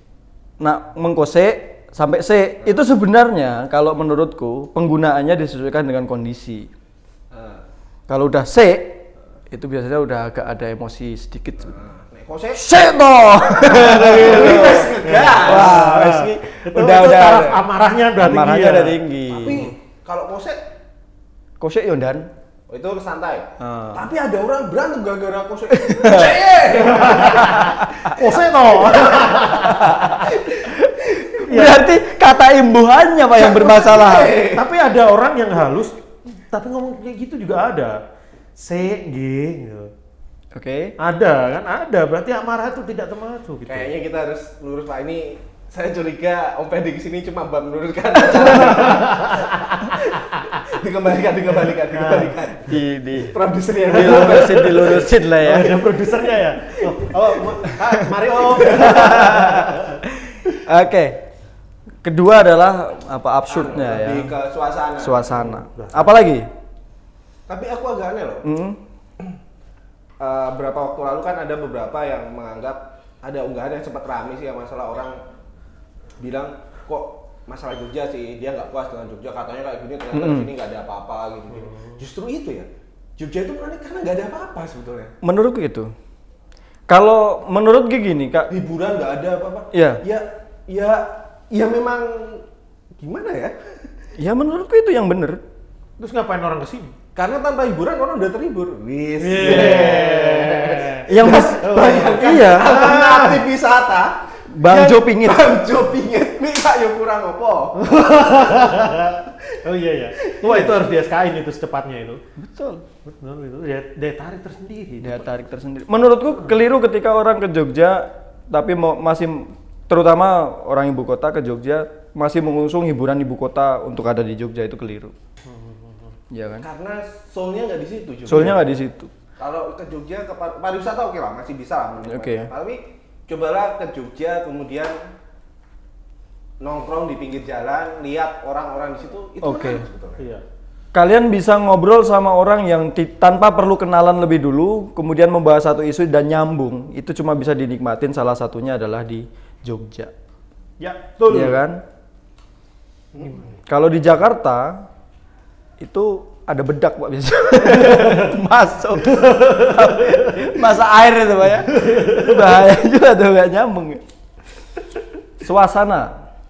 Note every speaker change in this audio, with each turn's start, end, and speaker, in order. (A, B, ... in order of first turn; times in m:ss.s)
0:00.6-0:06.7 A
0:07.3-0:07.6 B
0:08.1-0:11.8 A
0:11.7-0:12.6 B
0:12.5-0:17.6 A
0:13.3-0:15.9 B
0:15.0-0:19.7 C
0:18.2-0:19.7 A
0:19.3-0:20.6 B
0:21.6-0:22.3 A
0:22.7-0:27.7 B
0:23.6-0:24.0 A
0:25.7-0:26.4 A
0:26.8-0:30.2 C
0:27.3-0:28.1 A
0:28.8-0:30.5 B
0:29.6-0:34.4 A
0:31.4-0:31.9 C
0:33.3-0:34.6 B
0:34.4-0:38.0 C
0:38.6-0:39.9 C
0:40.5-0:40.9 A
0:41.0-0:43.9 C
0:43.7-0:55.1 B
0:48.4-0:50.6 C
0:51.7-0:52.3 C
0:52.6-0:53.4 A
0:53.9-0:55.8 A
0:53.9-1:00.0 C
0:57.7-0:58.1 A
0:58.4-0:59.6 B
0:58.6-1:01.2 A
1:02.0-1:04.3 A
1:03.5-1:05.6 B
1:05.0-1:06.5 A
1:05.7-1:06.2 C
1:07.5-1:08.5 B
1:08.4-1:08.8 A
1:10.2-1:15.2 B
1:16.2-1:25.1 B
1:20.1-1:20.5 A
1:21.6-1:21.9 C
1:25.2-1:25.9 A
1:26.9-1:28.5 A
1:28.5-1:32.4 B
1:29.7-1:30.0 A
1:33.0-1:33.7 B
1:34.2-1:35.4 A
1:36.0-1:36.9 C
1:37.1-1:47.9 B
1:39.2-1:42.3 C
1:39.4-1:39.9 A
1:41.1-1:43.4 A
1:44.5-1:45.5 A
1:47.8-1:52.2 C
1:50.2-1:50.7 B
1:52.4-1:52.8 A
1:53.0-1:55.2 C
1:55.0-2:05.1 A
2:05.4-2:06.1 C
2:06.3-2:06.6 A
2:06.6-2:08.6 B
2:08.3-2:09.1 A
2:09.4-2:15.0 B
2:12.0-2:12.5 A
2:16.6-2:20.2 B
2:19.4-2:19.8 A
2:20.9-2:30.1 A
2:30.8-2:31.6 C
2:31.3-2:31.8 A
2:33.1-2:33.4 B
2:33.6-2:34.9 A
2:35.8-2:44.0 A
2:37.8-2:38.2 C
2:39.1-2:40.5 C
2:41.7-2:42.5 C
2:45.4-2:46.2 A